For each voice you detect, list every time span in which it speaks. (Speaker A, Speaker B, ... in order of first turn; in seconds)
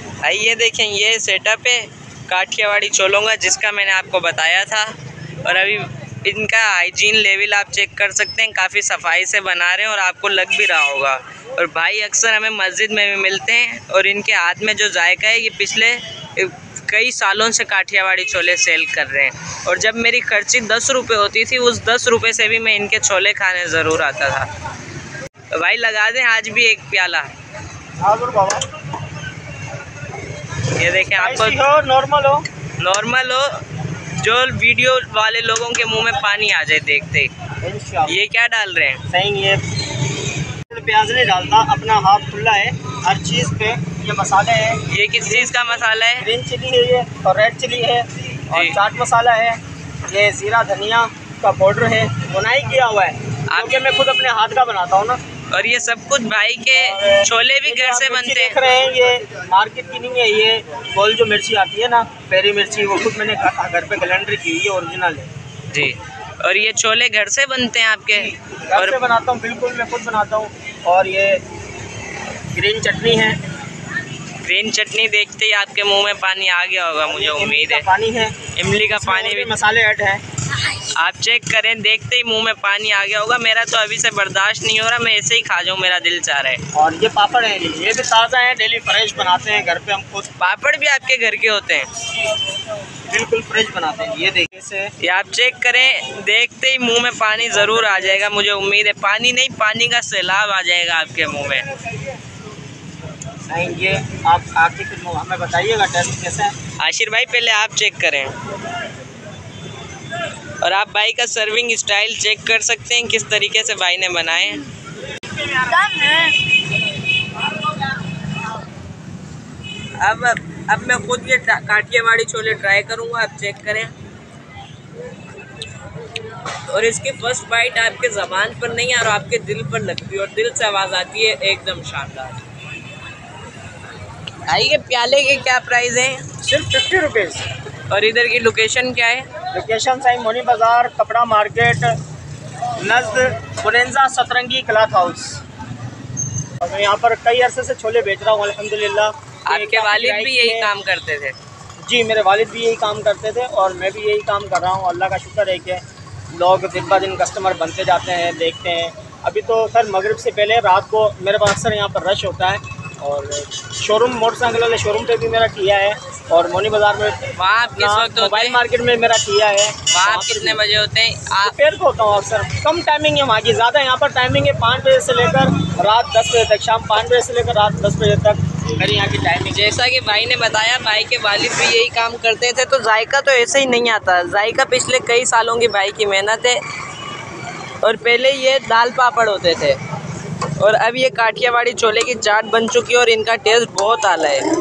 Speaker A: 0.2-4.9, 5.4-24.5, 25.5-27.3, 30.8-31.6, 32.8-33.6, 34.2-37.3, 38.1-39.0, 44.9-46.3, 48.5-48.8, 53.5-53.8, 55.5-58.5, 65.7-69.0, 74.4-77.9, 78.5-79.5, 80.7-86.6, 90.4-91.9, 95.0-101.7, 106.8-108.3, 110.6-114.7, 115.6-116.3, 120.0-123.9, 126.7-132.4, 134.5-136.2, 137.9-139.3, 149.5-151.4, 167.4-168.6, 169.9-171.6, 179.5-186.6, 187.8-189.8, 190.6-194.5
Speaker B: 28.0-28.7, 31.2-32.5, 37.6-38.2, 39.1-39.6, 40.7-45.6, 46.2-55.2, 56.8-65.3, 68.1-71.4, 72.5-73.4, 77.0-80.2, 86.7-90.3, 93.1-94.9, 97.5-98.2, 103.5-106.5, 136.4-137.4, 139.5-142.0, 142.8-145.4, 146.6-150.7, 151.8-170.6, 171.4-179.7